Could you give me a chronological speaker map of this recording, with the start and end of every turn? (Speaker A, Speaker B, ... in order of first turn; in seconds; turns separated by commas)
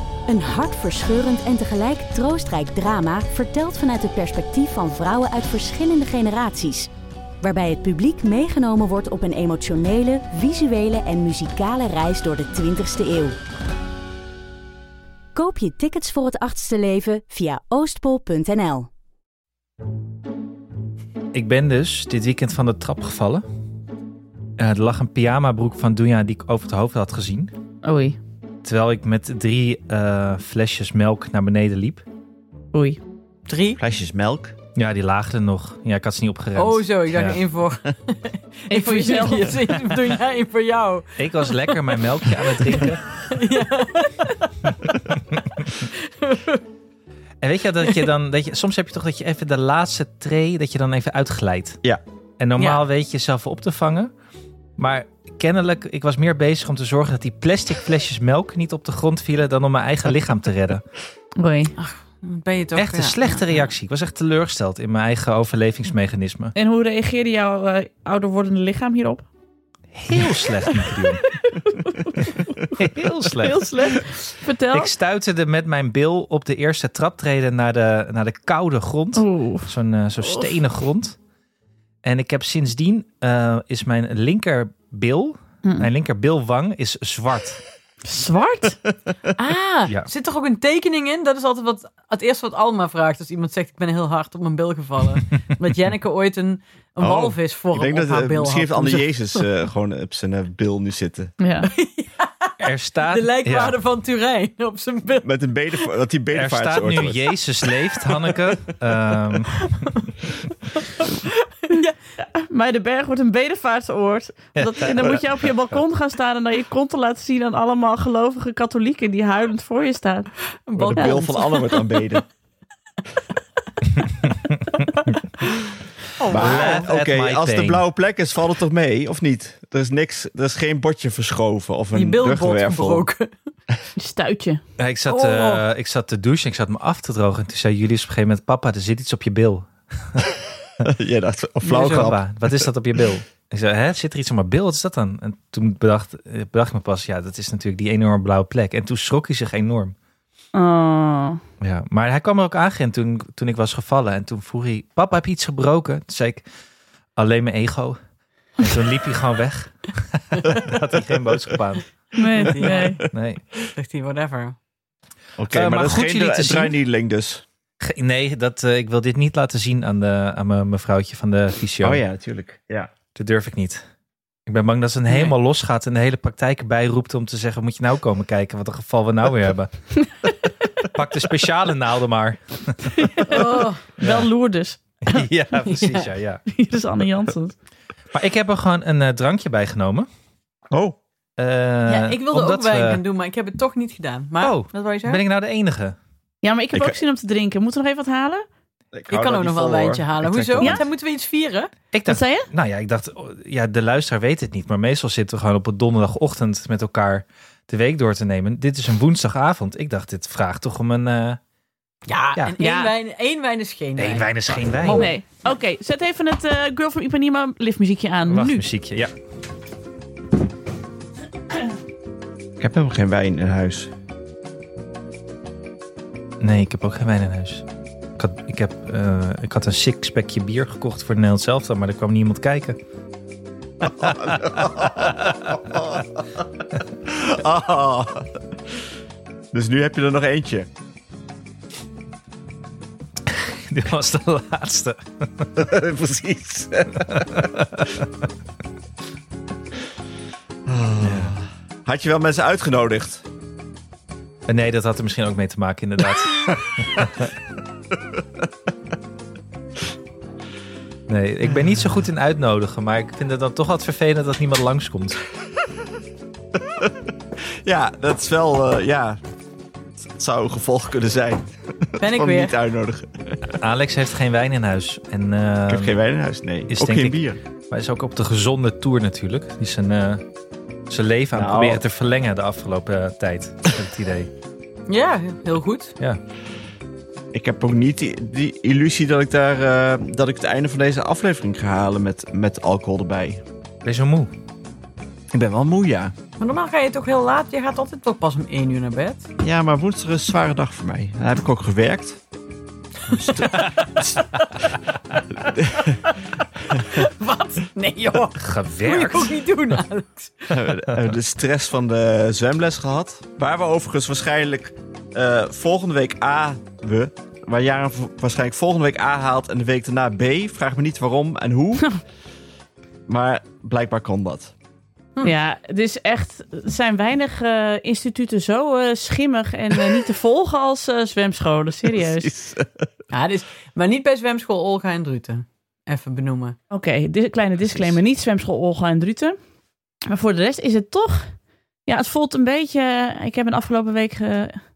Speaker A: 0.3-6.9, Speaker A: 7.4-13.4, Speaker A: 15.3-18.9, Speaker B: 21.3-23.4, Speaker B: 24.6-27.5, Speaker C: 27.8-28.2, Speaker B: 28.6-32.0, Speaker C: 32.7-33.0, Speaker D: 33.5-33.8, Speaker E: 33.8-34.5, Speaker B: 34.8-37.4, Speaker D: 36.6-41.1, Speaker C: 38.7-39.7, Speaker B: 41.2-43.1, Speaker D: 41.7-44.4, Speaker B: 44.9-45.8, Speaker D: 45.9-46.6, Speaker B: 47.4-51.8, Speaker B: 52.4-54.1, Speaker B: 54.8-60.8, Speaker C: 61.4-61.7, Speaker D: 61.8-63.7, Speaker B: 62.8-66.5, Speaker C: 66.5-69.3, Speaker B: 69.9-71.3, Speaker C: 70.8-74.9, Speaker B: 72.3-74.0, Speaker B: 74.7-81.2, Speaker C: 79.2-79.7, Speaker C: 80.2-80.6, Speaker B: 82.0-87.6, Speaker C: 88.0-88.8, Speaker D: 89.4-99.5, Speaker E: 97.0-101.3, Speaker C: 101.4-101.7, Speaker D: 101.6-102.5, Speaker B: 102.6-103.8, Speaker D: 103.1-105.3, Speaker E: 105.2-107.3, Speaker B: 106.3-109.7, Speaker D: 111.2-112.0, Speaker C: 112.4-120.3, Speaker B: 114.6-115.2, Speaker D: 120.7-122.2, Speaker E: 120.9-122.2, Speaker C: 121.0-121.4, Speaker D: 126.2-126.9, Speaker E: 126.3-133.1, Speaker B: 126.3-127.8, Speaker D: 131.9-133.3, Speaker C: 134.0-134.6, Speaker B: 134.8-140.3, Speaker D: 135.1-135.6, Speaker E: 140.8-142.7, Speaker B: 141.6-149.9, Speaker C: 150.5-151.4, Speaker B: 151.6-156.4, Speaker B: 157.2-158.0, Speaker B: 158.6-161.9, Speaker C: 162.2-163.0, Speaker D: 162.4-163.1, Speaker B: 163.1-163.4, Speaker D: 163.7-164.6, Speaker E: 165.4-167.4, Speaker B: 165.5-166.7, Speaker B: 167.8-172.0, Speaker E: 171.8-172.9, Speaker B: 173.2-173.8, Speaker B: 174.5-179.7, Speaker B: 180.8-183.1, Speaker C: 182.9-185.1, Speaker D: 183.3-183.8, Speaker B: 184.0-184.3, Speaker B: 185.1-186.4, Speaker D: 185.7-186.1, Speaker C: 186.5-187.6, Speaker B: 188.1-190.1, Speaker E: 190.7-191.0, Speaker B: 191.4-193.0, Speaker D: 191.9-195.2, Speaker B: 194.4-196.0, Speaker C: 196.4-198.4, Speaker E: 198.9-200.8, Speaker D: 199.1-201.7, Speaker B: 201.9-211.4, Speaker C: 202.1-202.5, Speaker D: 212.1-215.2, Speaker C: 212.6-212.9, Speaker B: 214.0-215.1, Speaker C: 214.9-218.7, Speaker B: 218.3-219.1, Speaker E: 222.6-223.9, Speaker B: 226.4-227.6, Speaker B: 228.2-232.8, Speaker B: 233.8-235.6, Speaker E: 234.0-236.4, Speaker E: 237.1-238.4, Speaker E: 239.5-240.7, Speaker B: 243.3-245.6, Speaker E: 245.6-247.5, Speaker B: 247.1-248.0, Speaker E: 250.7-253.2, Speaker B: 251.0-251.3, Speaker B: 254.5-257.3, Speaker B: 261.1-265.2, Speaker E: 266.6-269.2, Speaker E: 270.0-273.4, Speaker D: 272.0-272.6, Speaker B: 273.5-276.0, Speaker E: 275.7-277.4, Speaker B: 276.7-277.2, Speaker B: 277.7-280.2, Speaker B: 280.9-284.3, Speaker E: 281.3-281.8, Speaker D: 284.9-285.9, Speaker E: 287.3-293.4, Speaker B: 293.9-294.3, Speaker E: 295.3-296.1, Speaker D: 296.4-299.3, Speaker E: 299.4-302.2, Speaker D: 303.1-303.8, Speaker E: 303.2-304.2, Speaker E: 305.5-306.0, Speaker D: 305.9-306.2, Speaker D: 306.7-310.5, Speaker B: 308.4-309.4, Speaker E: 310.5-321.9, Speaker E: 323.1-324.5, Speaker C: 325.2-332.3, Speaker E: 331.9-332.9, Speaker D: 333.1-336.6, Speaker C: 336.7-339.4, Speaker C: 340.1-341.3, Speaker C: 341.9-344.6